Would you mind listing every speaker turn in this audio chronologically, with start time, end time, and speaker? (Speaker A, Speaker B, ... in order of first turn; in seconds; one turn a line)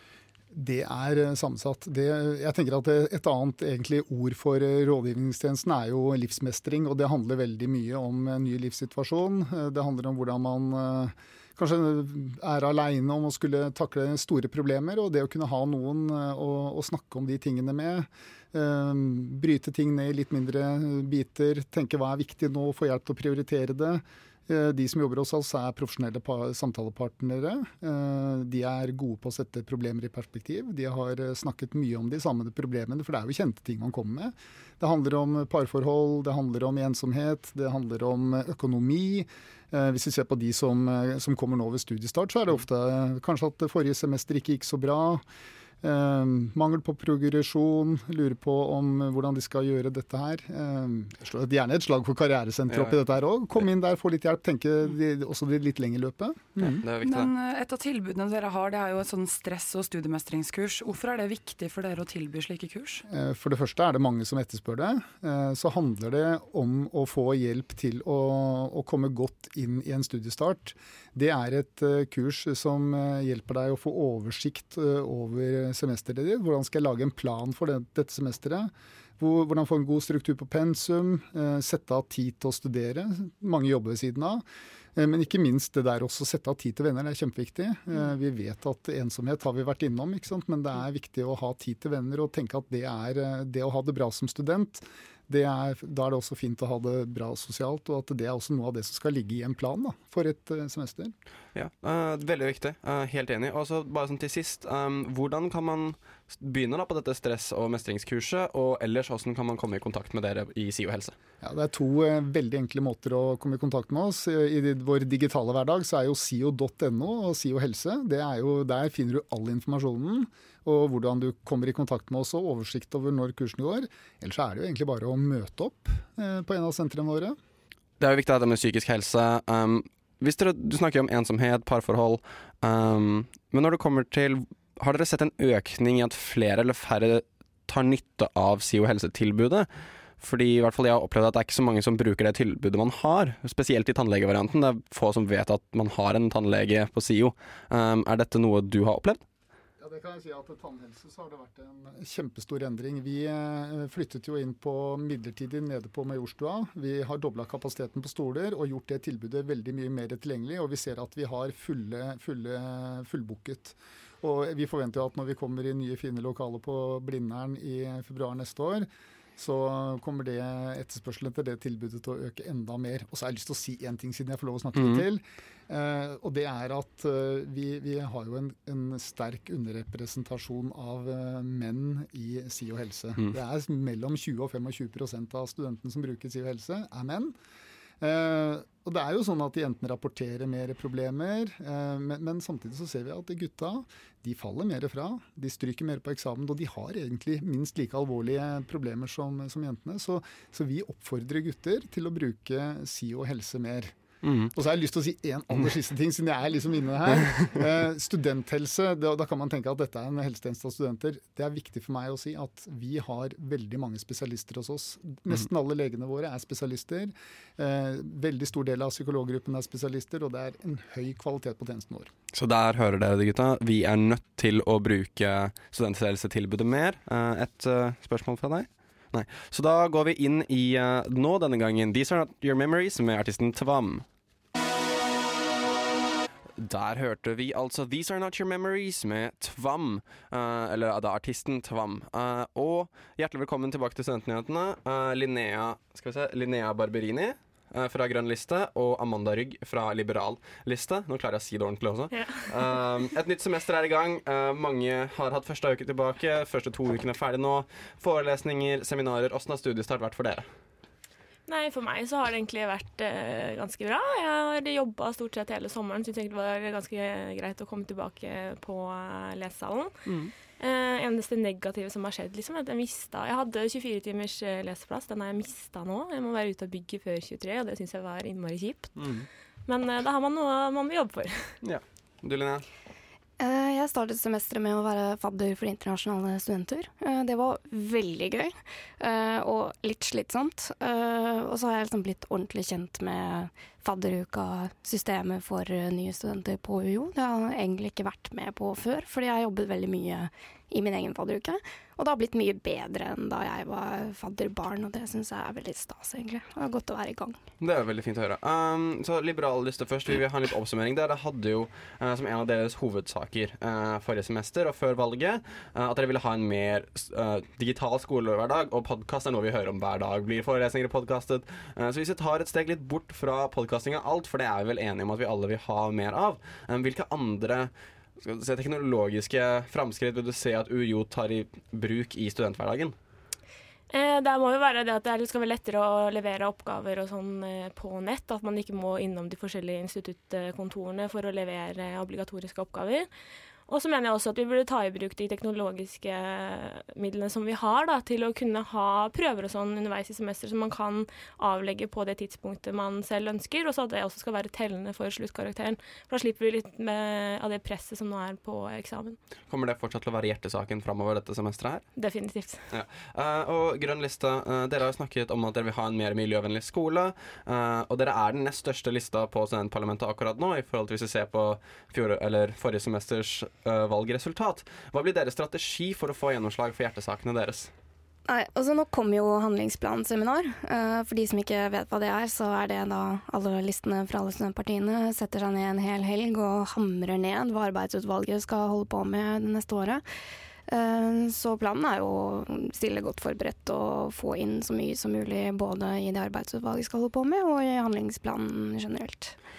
Speaker A: 0.5-45.2
Speaker A: 45.8-56.8
Speaker B: 56.6-57.3
Speaker C: 57.0-63.0
Speaker A: 63.1-84.4
Speaker A: 85.0-101.1
Speaker B: 101.5-111.2
Speaker A: 111.4-127.4
Speaker B: 128.0-149.2
Speaker A: 149.8-187.3
Speaker A: 188.0-204.0
Speaker B: 204.2-204.5
Speaker A: 204.5-222.1
Speaker B: 222.3-234.1
Speaker B: 236.6-260.5
Speaker D: 252.1-252.7
Speaker D: 261.5-269.9
Speaker B: 270.1-270.3
Speaker D: 270.6-279.1
Speaker B: 279.0-279.3
Speaker D: 279.7-281.6
Speaker B: 281.6-282.6
Speaker E: 283.4-307.4
Speaker B: 307.6-332.9
Speaker D: 333.9-343.1
Speaker D: 343.7-359.2
Speaker B: 359.5-361.9
Speaker D: 362.0-362.7
Speaker B: 362.7-377.7
Speaker E: 378.3-390.0
Speaker E: 390.7-399.4